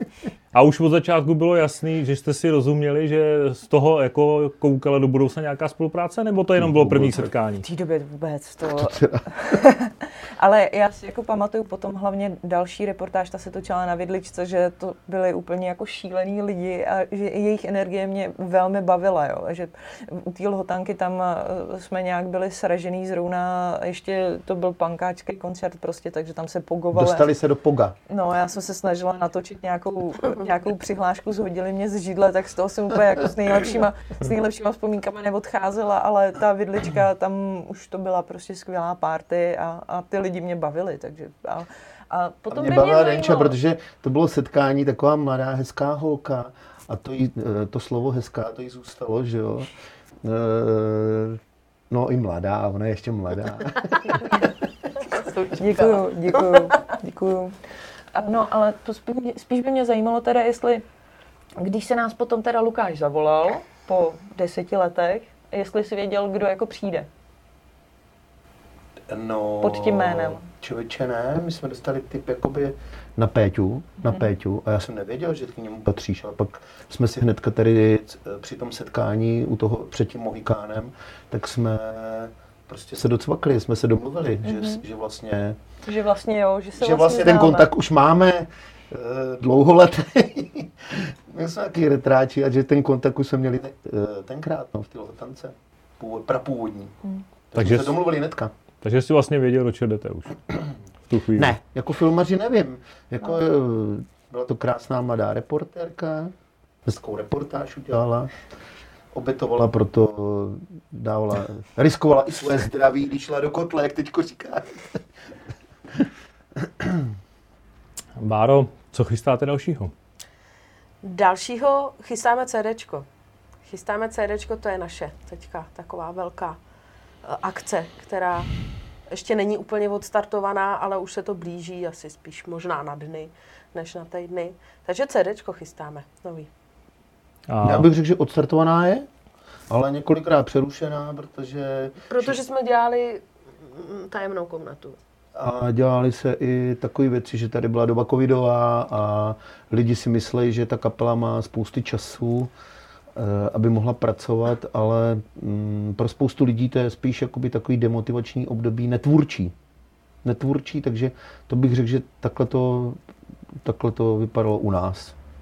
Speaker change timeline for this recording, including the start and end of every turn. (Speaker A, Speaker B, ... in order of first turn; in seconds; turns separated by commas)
Speaker A: 0.5-7.6, Speaker B: 6.6-7.3, Speaker C: 7.6-27.3, Speaker B: 8.7-9.5, Speaker B: 26.9-27.9, Speaker C: 28.1-43.6, Speaker B: 42.5-49.7, Speaker B: 50.2-54.5, Speaker C: 55.1-57.5, Speaker C: 58.1-60.8, Speaker C: 61.6-67.1, Speaker B: 69.1-85.6, Speaker C: 69.6-70.5, Speaker C: 84.4-84.8, Speaker C: 85.8-87.7, Speaker B: 86.8-97.0, Speaker B: 97.5-98.5, Speaker A: 97.5-98.0, Speaker A: 98.8-100.4, Speaker A: 101.1-101.5, Speaker B: 101.3-106.3, Speaker B: 106.8-108.3, Speaker B: 109.1-115.0, Speaker B: 116.6-117.1, Speaker A: 118.2-119.9, Speaker D: 121.0-123.0, Speaker D: 123.6-126.6, Speaker D: 127.2-128.5, Speaker D: 129.1-136.5, Speaker A: 137.5-137.9, Speaker B: 137.6-139.1, Speaker B: 139.7-142.4, Speaker D: 142.1-145.0, Speaker B: 145.3-152.5, Speaker B: 153.1-159.5, Speaker B: 160.2-163.0, Speaker B: 163.6-165.1